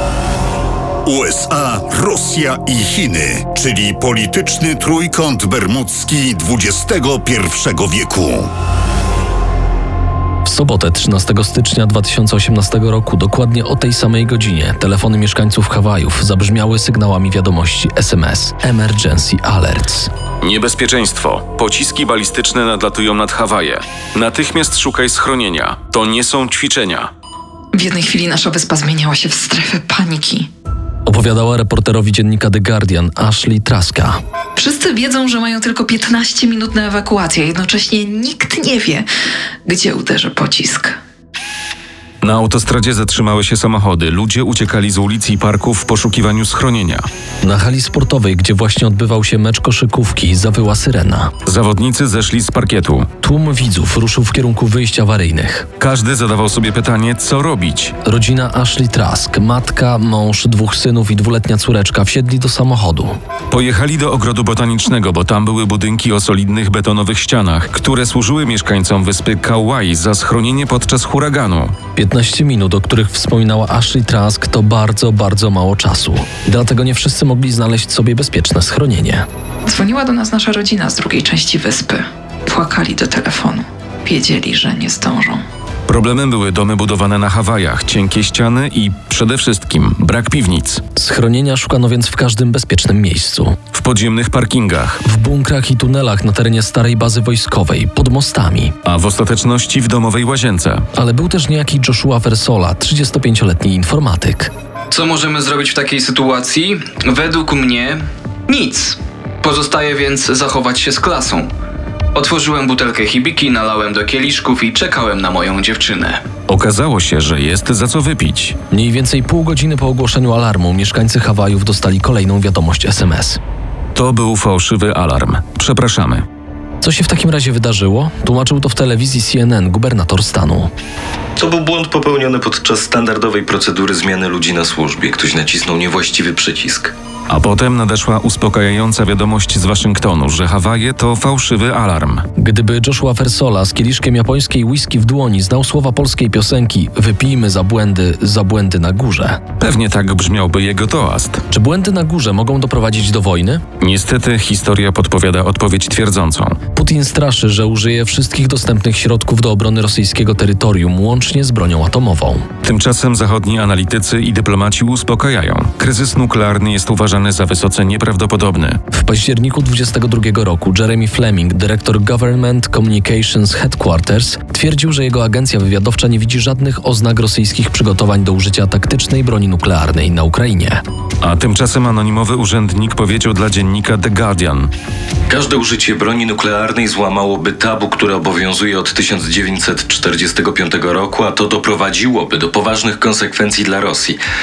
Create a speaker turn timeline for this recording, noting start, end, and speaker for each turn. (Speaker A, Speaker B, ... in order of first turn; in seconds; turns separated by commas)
Speaker A: 1.0-8.5, Speaker B: 10.4-20.1, Speaker C: 20.4-27.1, Speaker D: 27.7-30.5, Speaker B: 31.1-34.2, Speaker D: 34.6-39.1, Speaker D: 39.6-41.0, Speaker C: 42.2-47.0, Speaker B: 47.4-51.3, Speaker C: 51.4-53.1, Speaker B: 53.2-55.7, Speaker C: 55.8-57.9, Speaker B: 58.0-63.1, Speaker C: 63.5-71.7, Speaker B: 72.0-79.2, Speaker D: 79.7-85.4, Speaker C: 85.9-90.8, Speaker B: 91.0-93.6, Speaker C: 93.7-95.0, Speaker B: 95.0-98.8, Speaker C: 98.8-100.8, Speaker B: 100.9-104.5, Speaker E: 104.9-111.5, Speaker E: 112.1-116.2, Speaker C: 116.5-118.5, Speaker B: 118.7-123.4, Speaker C: 123.9-126.2, Speaker B: 126.8-130.7, Speaker F: 131.4-136.9, Speaker C: 137.3-142.2, Speaker B: 142.4-149.4, Speaker C: 149.6-151.4, Speaker B: 151.5-153.6, Speaker C: 153.8-156.6, Speaker B: 156.7-162.4, Speaker C: 162.6-168.8, Speaker B: 168.9-180.8, Speaker C: 181.2-184.7, Speaker F: 185.3-194.2